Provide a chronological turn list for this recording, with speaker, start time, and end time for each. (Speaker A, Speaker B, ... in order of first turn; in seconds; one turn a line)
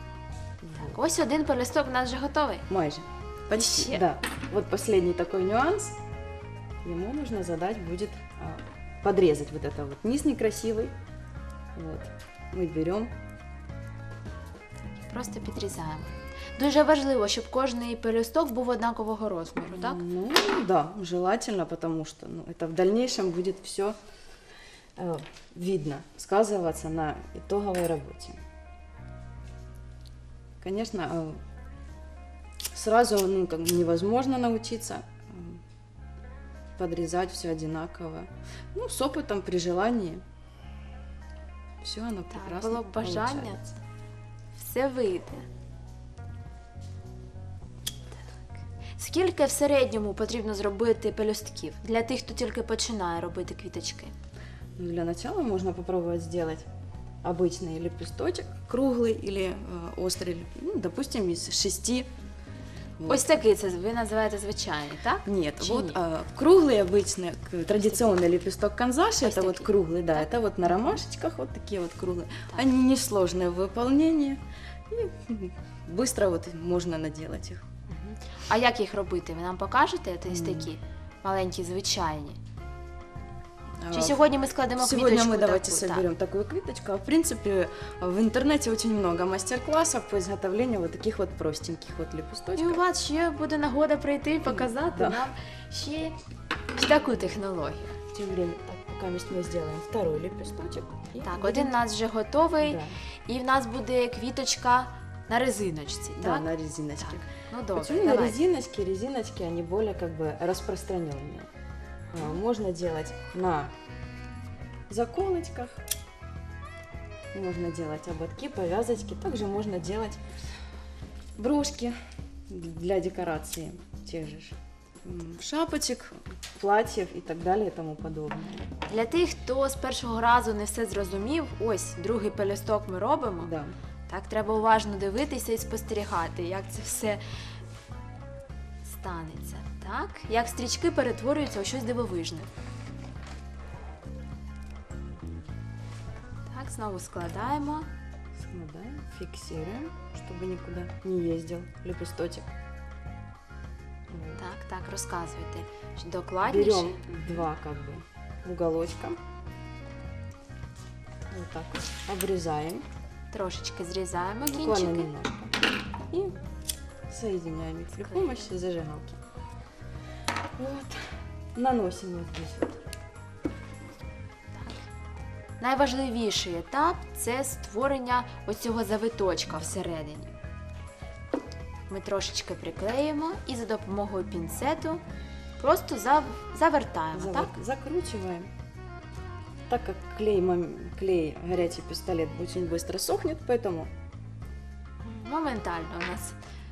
Speaker A: 0.6-1.0
Speaker B: 0.8-2.6
Speaker A: 2.7-6.0
Speaker B: 3.5-4.0
Speaker A: 6.8-10.9
Speaker A: 11.7-13.1
Speaker B: 14.9-20.0
Speaker A: 19.7-23.9
Speaker A: 24.9-28.4
Speaker A: 30.6-31.4
Speaker A: 32.7-35.6
Speaker A: 36.8-40.2
Speaker A: 41.8-43.7
Speaker B: 42.3-43.6
Speaker B: 44.5-45.5
Speaker B: 49.0-54.1
Speaker A: 54.8-56.6
Speaker A: 57.2-62.1
Speaker A: 63.0-63.4
Speaker B: 63.1-66.0
Speaker A: 65.2-77.6
Speaker B: 67.8-68.2
Speaker B: 69.2-70.9
Speaker B: 77.9-82.4
Speaker A: 80.3-80.7
Speaker A: 83.8-84.2
Speaker B: 83.9-86.0
Speaker A: 84.8-92.8
Speaker B: 92.5-96.2
Speaker A: 94.5-95.2
Speaker B: 96.7-98.0
Speaker A: 98.1-101.8
Speaker B: 101.2-108.4
Speaker A: 102.6-103.0
Speaker A: 106.2-111.5
Speaker A: 112.1-113.7
Speaker A: 114.9-115.8
Speaker A: 117.3-120.2
Speaker A: 121.3-121.9
Speaker A: 122.5-128.7
Speaker B: 128.9-133.5
Speaker A: 133.4-133.7
Speaker B: 134.1-137.2
Speaker B: 138.8-142.5
Speaker B: 146.5-147.9
Speaker A: 148.3-152.5
Speaker A: 154.1-154.4
Speaker B: 154.4-157.4
Speaker A: 156.4-159.2
Speaker A: 161.3-162.8
Speaker B: 163.3-165.1
Speaker A: 164.4-165.6
Speaker A: 166.1-166.3
Speaker A: 167.1-169.2
Speaker B: 168.0-168.5
Speaker A: 170.6-171.0
Speaker A: 171.5-172.8
Speaker B: 174.6-174.8
Speaker B: 175.6-180.3
Speaker B: 181.9-185.0
Speaker B: 185.6-187.5
Speaker A: 187.1-188.5
Speaker A: 189.7-193.9
Speaker B: 195.0-196.4